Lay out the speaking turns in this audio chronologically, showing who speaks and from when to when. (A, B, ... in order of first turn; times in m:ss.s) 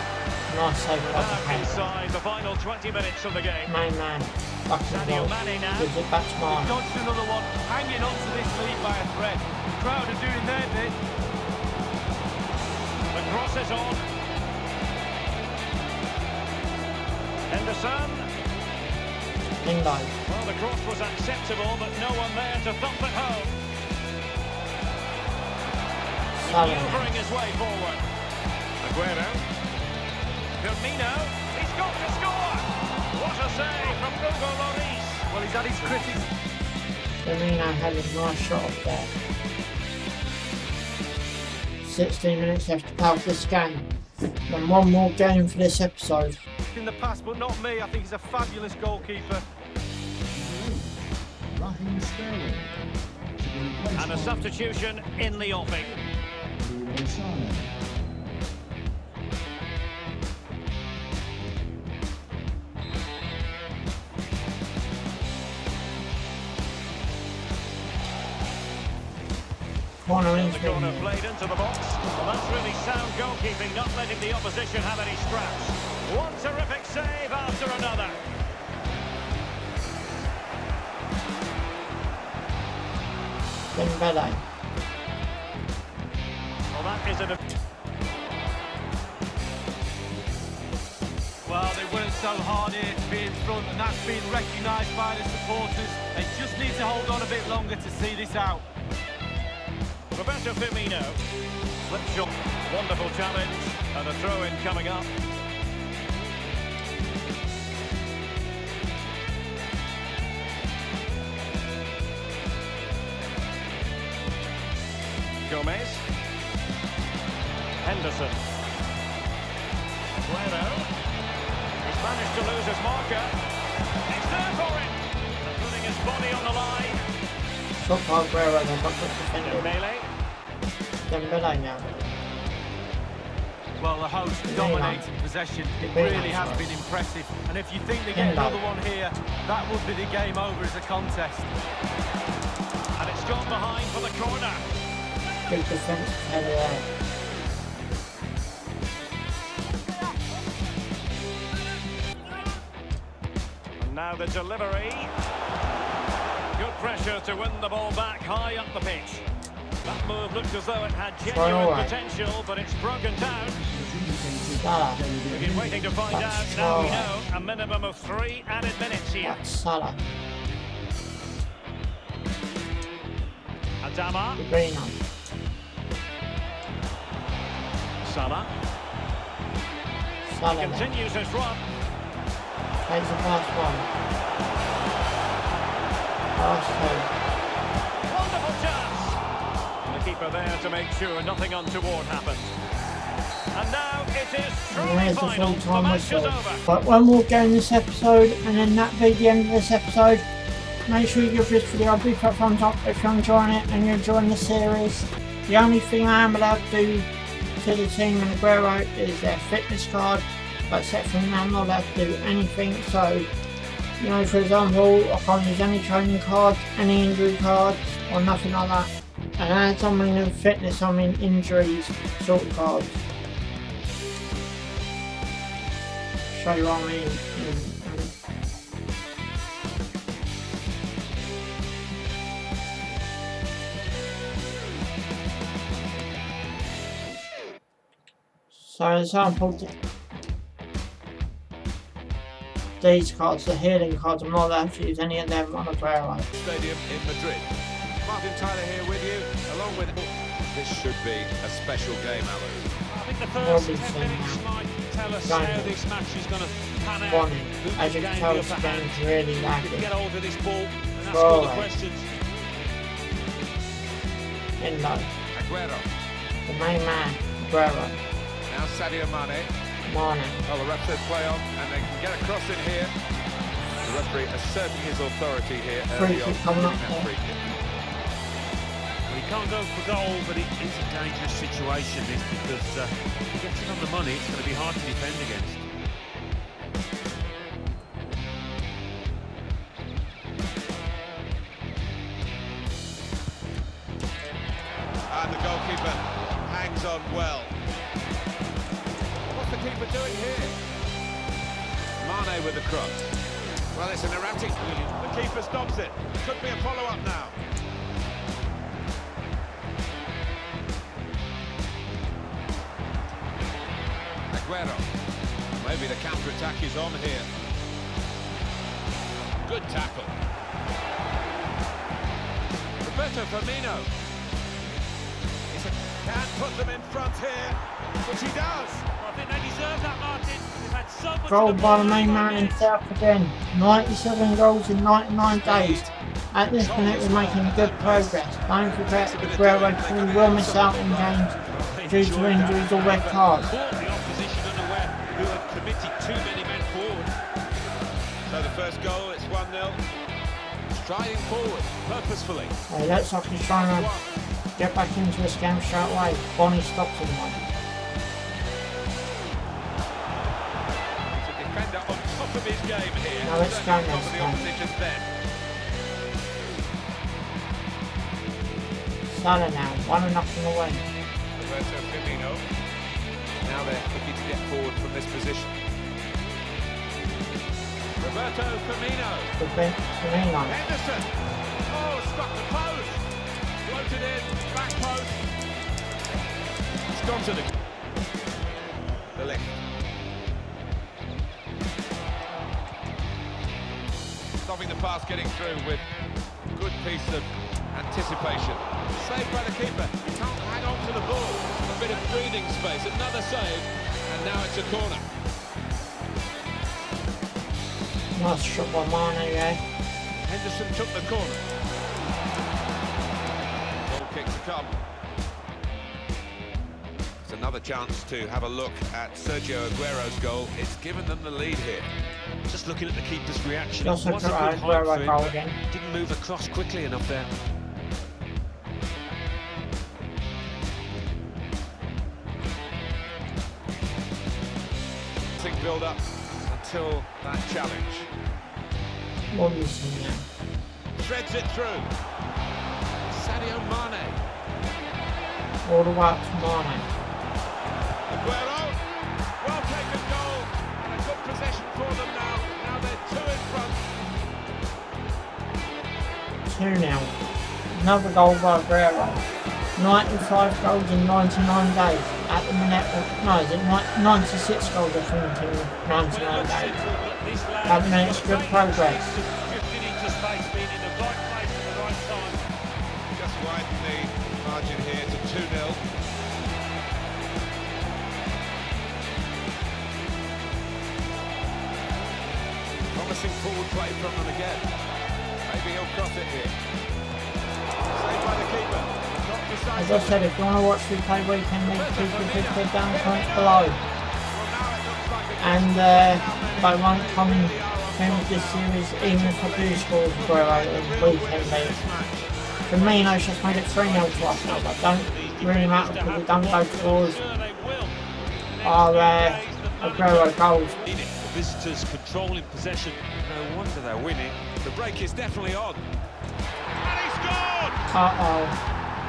0:00.5-0:02.0 A
0:01.0-0:03.7 B
0:03.7-0:06.8 A
0:04.9-0:05.9 B
0:06.5-0:11.0 C
0:13.1-0:14.0 B
0:17.5-0:18.3 B
0:19.6-0:20.2 A
0:20.3-0:23.6 B
0:26.4-0:27.1 A
0:26.4-0:28.0 B
0:28.8-0:29.4 B
0:30.6-0:35.3 B
0:35.3-0:36.2 C
0:37.2-0:39.1 A
0:41.8-0:43.9 A
0:44.5-0:46.4 A
0:46.7-0:49.4 C
0:50.3-0:57.8 D
0:54.0-0:55.9 B
1:10.0-1:11.1 A
1:10.3-1:18.2 B
1:23.7-1:24.4 A
1:26.7-1:27.4 B
1:31.5-1:38.6 C
1:40.1-1:41.2 B
1:41.8-1:45.1 B
1:55.5-1:56.0 B
1:57.8-1:58.4 B
2:00.2-2:00.9 B
2:01.8-2:03.3 B
2:04.1-2:07.0 B
2:07.8-2:09.7 A
2:09.4-2:10.1 B
2:11.1-2:11.9 A
2:13.8-2:21.5 C
2:14.5-2:15.0 A
2:15.8-2:16.7 A
2:18.1-2:18.6 A
2:23.0-2:24.6 B
2:25.5-2:26.9 A
2:33.8-2:35.1 B
2:36.6-2:39.3 B
2:39.8-2:43.6 B
2:41.2-2:41.9 A
2:43.3-2:46.0 D
2:44.1-2:45.0 A
2:45.3-2:49.4 B
2:46.1-2:47.1 A
2:49.2-2:50.0 A
2:53.8-2:54.4 B
2:54.4-2:55.0 A
2:58.0-2:58.5 B
3:00.2-3:00.9 A
3:00.5-3:01.6 B
3:02.8-3:03.9 A
3:06.4-3:07.1 A
3:08.1-3:09.2 B
3:09.8-3:12.6 B
3:13.5-3:16.6 B
3:14.7-3:20.2 A
3:20.9-3:27.1 A
3:27.6-3:33.3 A
3:34.0-3:43.0 A
3:46.3-3:48.1 A
3:58.5-3:59.8 A
4:02.8-4:06.3 A
4:06.3-4:07.5 E
4:08.0-4:12.6 E
4:12.9-4:22.1 F
4:13.4-4:14.4 A
4:15.2-4:15.8 A
4:17.0-4:19.9 A
4:21.1-4:21.7 A
4:24.6-4:25.1 A
4:25.4-4:25.9 E
4:26.5-4:28.0 A
4:28.5-4:29.5 E
4:29.9-4:30.4 A
4:30.5-4:32.9 E
4:33.8-4:37.4 E
4:35.9-4:37.1 A
4:39.1-4:45.7 F
4:55.1-4:57.6 E
4:59.3-5:00.6 E
5:02.0-5:03.2 E
5:03.7-5:07.4 E
5:14.3-5:14.8 E
5:15.6-5:17.3 E
5:19.4-5:20.1 E
5:22.8-5:23.9 E
5:25.5-5:28.9 E
5:29.0-5:32.6 F
5:31.3-5:41.3 A
5:35.2-5:35.9 E
5:36.5-5:41.6 E
5:41.5-5:47.1 F
5:41.9-5:43.5 A
5:48.3-5:49.8 E
5:50.7-5:52.6 E
5:52.7-5:53.9 A
5:53.5-5:54.1 E
5:54.6-5:57.5 A
6:01.2-6:05.1 E
6:03.2-6:04.6 A
6:09.0-6:10.9 A
6:11.4-6:12.4 E
6:13.4-6:15.5 E
6:18.0-6:19.3 E
6:19.4-6:20.6 A
6:20.4-6:21.1 E
6:21.7-6:23.0 E
6:23.6-6:25.2 E
6:26.9-6:27.5 E
6:29.2-6:29.6 E
6:34.4-6:35.8 E
6:36.5-6:45.1 E
6:48.2-6:49.6 A
6:50.2-6:51.4 E
6:53.9-6:54.8 E
6:57.2-7:01.9 E
7:02.5-7:07.3 F
7:03.8-7:05.6 A
7:15.4-7:18.1 E
7:19.3-7:20.3 A
7:21.0-7:21.9 E
7:23.1-7:24.2 E
7:25.6-7:26.9 A
7:28.1-7:28.8 E
7:29.4-7:33.8 E
7:36.5-7:37.1 A
7:37.7-7:39.2 A
7:39.8-7:46.8 A
7:46.0-7:52.4 F
7:47.6-7:49.2 A
7:53.1-7:55.8 E
8:02.9-8:04.7 E
8:05.5-8:06.6 E
8:07.8-8:10.3 E
8:09.8-8:13.8 A
8:11.6-8:13.8 E
8:14.3-8:22.3 E
8:15.4-8:21.8 A
8:22.7-8:27.2 A
8:22.7-8:34.5 F
8:28.6-8:30.8 A
8:34.6-8:35.8 E
8:36.8-8:37.8 E
8:37.9-8:38.6 A